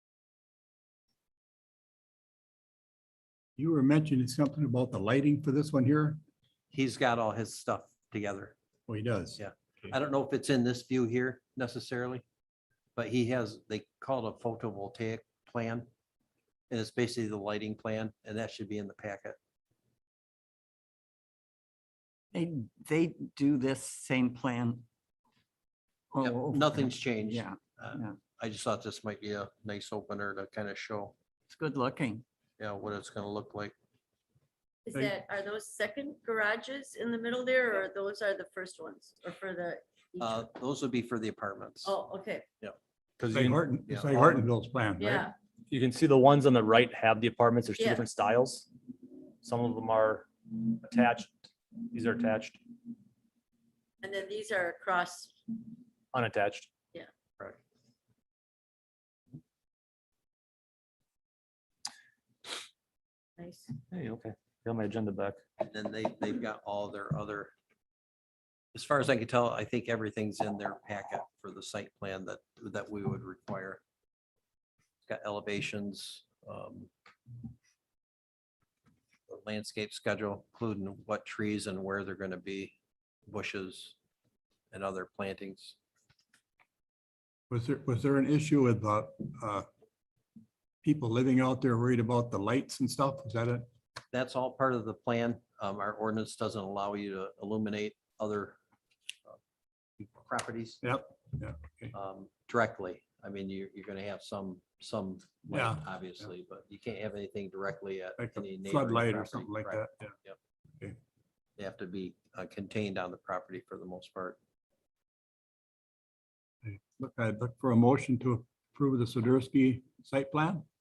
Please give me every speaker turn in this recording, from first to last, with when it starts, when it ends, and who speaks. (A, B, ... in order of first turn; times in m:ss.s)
0:03.6-0:06.2 A
0:06.7-0:08.5 B
0:08.9-0:09.4 A
0:09.4-0:12.2 B
0:13.0-0:15.9 B
0:16.7-0:19.4 B
0:22.3-0:24.8 C
0:26.1-0:28.2 C
0:26.2-0:31.1 B
0:31.5-0:32.2 C
0:32.6-0:33.7 B
0:34.8-0:40.4 D
0:40.2-0:42.0 B
0:41.8-0:42.4 D
0:42.6-0:44.4 B
0:43.3-0:45.3 A
0:45.0-0:45.3 D
0:45.7-0:48.7 E
0:47.8-0:48.0 D
0:49.4-0:51.4 E
0:51.9-0:52.6 E
0:54.0-0:55.3 D
0:56.1-0:56.7 E
1:03.4-1:03.7 D
1:03.9-1:05.4 E
1:05.6-1:07.5 B
1:08.7-1:13.8 B
1:15.0-1:16.9 B
1:19.3-1:22.7 B
1:23.3-1:24.0 B
1:24.7-1:25.8 B
1:27.5-1:29.6 A
1:30.8-1:33.6 A
1:34.1-1:38.6 B
1:40.2-1:40.8 B
1:40.8-1:41.9 A
1:41.9-1:50.4 B
1:45.5-1:45.8 A
1:48.2-1:50.1 A
1:51.6-1:54.4 B
1:56.6-2:00.6 A